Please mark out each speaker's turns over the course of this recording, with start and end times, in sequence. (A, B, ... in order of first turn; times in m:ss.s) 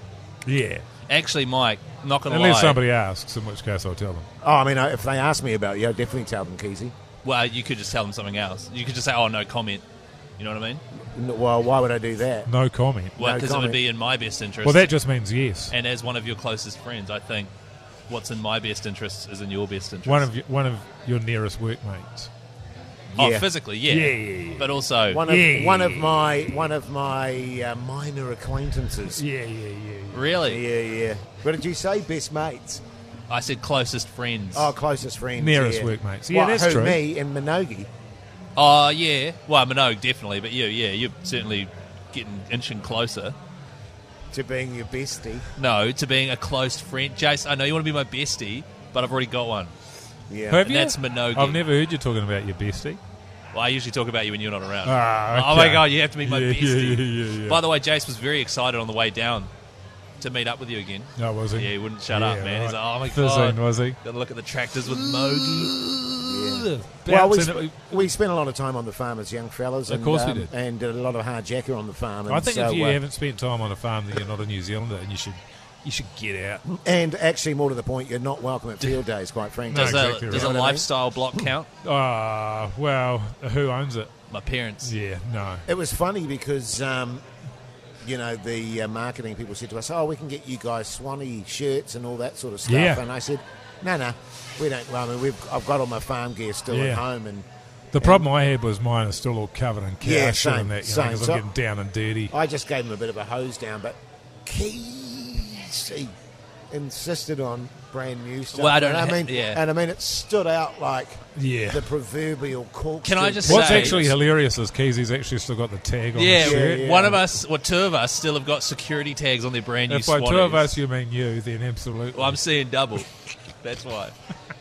0:00.5-0:00.8 A
0:01.1-0:02.8 B
0:02.3-0:04.3 A
0:04.4-0:06.9 C
0:07.2-0:09.8 B
0:10.4-0:10.8 B
0:11.2-0:12.5 C
0:12.5-0:13.2 A
0:13.2-0:14.9 B
0:13.2-0:13.8 C
0:14.6-0:15.7 A
0:15.7-0:17.5 B
0:18.1-0:20.3 B
0:20.0-0:22.3 A
0:23.2-0:23.5 C
0:23.2-0:25.2 B
0:23.9-0:26.7 A
0:25.1-0:29.2 C
0:29.1-0:30.2 A
0:30.1-0:30.6 B
0:30.4-0:32.8 C
0:33.3-0:34.7 B
0:34.5-0:37.9 C
0:35.4-0:37.0 A
0:38.6-0:43.4 B
0:44.3-0:45.5 C
0:45.6-0:49.7 B
0:50.3-0:50.6 C
0:50.5-0:53.0 A
0:50.6-0:51.6 B
0:53.5-0:59.5 B
0:54.8-0:57.6 A
1:00.2-1:05.8 B
1:01.2-1:04.0 A
1:04.9-1:08.1 A
1:06.2-1:13.0 C
1:09.9-1:10.5 A
1:12.3-1:16.6 A
1:16.7-1:20.9 C
1:19.7-1:20.5 A
1:19.7-1:21.7 B
1:21.8-1:24.1 A
1:24.3-1:24.9 B
1:24.8-1:25.6 A
1:25.7-1:27.2 C
1:28.0-1:37.5 C
1:32.7-1:33.0 A
1:36.7-1:37.0 A
1:37.9-1:42.3 A
1:38.0-1:38.2 C
1:40.0-1:41.5 C
1:42.3-1:46.1 C
1:46.7-1:54.2 C
1:48.5-1:49.6 B
1:51.4-1:51.9 A
1:53.0-1:54.1 B
1:53.5-1:57.0 A
1:56.2-2:00.7 B
1:56.4-1:57.2 C
1:59.9-2:02.4 A
2:02.2-2:03.1 B
2:03.6-2:04.2 B